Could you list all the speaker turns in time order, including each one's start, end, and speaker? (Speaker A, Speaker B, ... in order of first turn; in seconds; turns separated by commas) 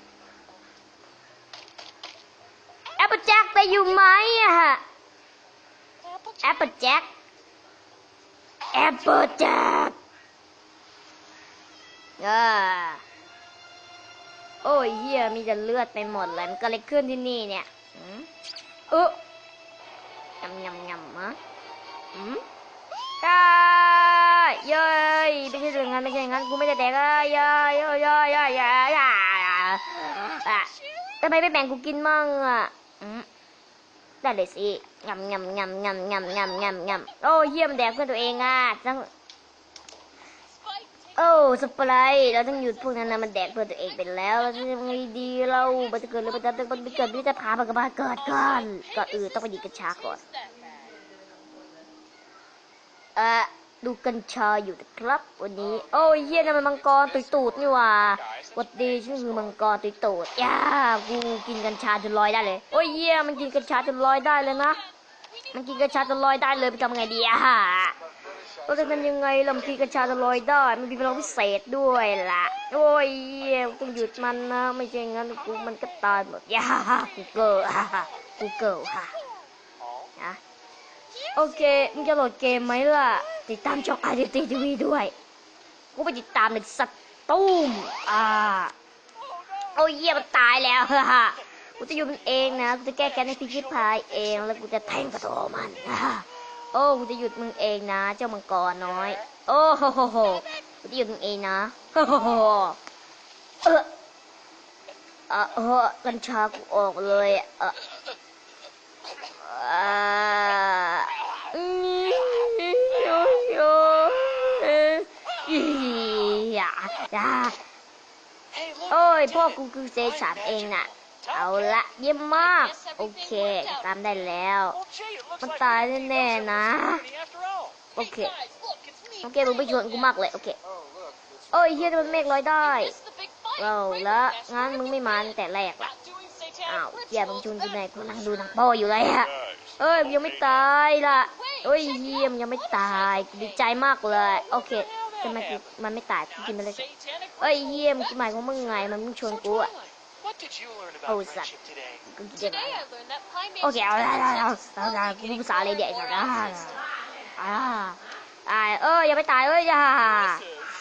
Speaker A: 3.0-4.8, Speaker A: 6.4-7.1, Speaker A: 8.7-9.9, Speaker A: 12.2-13.0, Speaker A: 14.6-18.3, Speaker A: 18.9-19.2, Speaker A: 20.4-21.4, Speaker A: 22.1-22.4, Speaker A: 23.2-33.3, Speaker A: 34.2-39.1, Speaker A: 41.1-50.2, Speaker B: 50.2-50.5, Speaker A: 53.1-64.8, Speaker A: 65.5-68.0, Speaker A: 68.6-79.2, Speaker A: 81.3-85.1, Speaker A: 85.9-88.7, Speaker A: 89.7-102.8, Speaker A: 103.6-103.9, Speaker A: 105.3-107.8, Speaker A: 109.3-117.6, Speaker C: 118.5-119.3, Speaker A: 118.9-124.8, Speaker C: 124.8-126.3, Speaker A: 125.4-127.0, Speaker C: 127.0-127.9, Speaker A: 127.9-128.4, Speaker B: 128.5-128.8, Speaker C: 128.6-129.2, Speaker A: 129.2-130.6, Speaker A: 131.5-133.0, Speaker B: 132.9-133.6, Speaker A: 133.6-135.9, Speaker C: 136.1-136.6, Speaker A: 136.6-146.9, Speaker C: 139.4-139.8, Speaker C: 144.9-145.6, Speaker C: 146.9-147.4, Speaker A: 147.4-149.7, Speaker C: 149.7-152.0, Speaker A: 151.1-151.5, Speaker A: 152.1-152.8, Speaker B: 152.6-154.8, Speaker A: 153.6-156.8, Speaker A: 157.4-160.4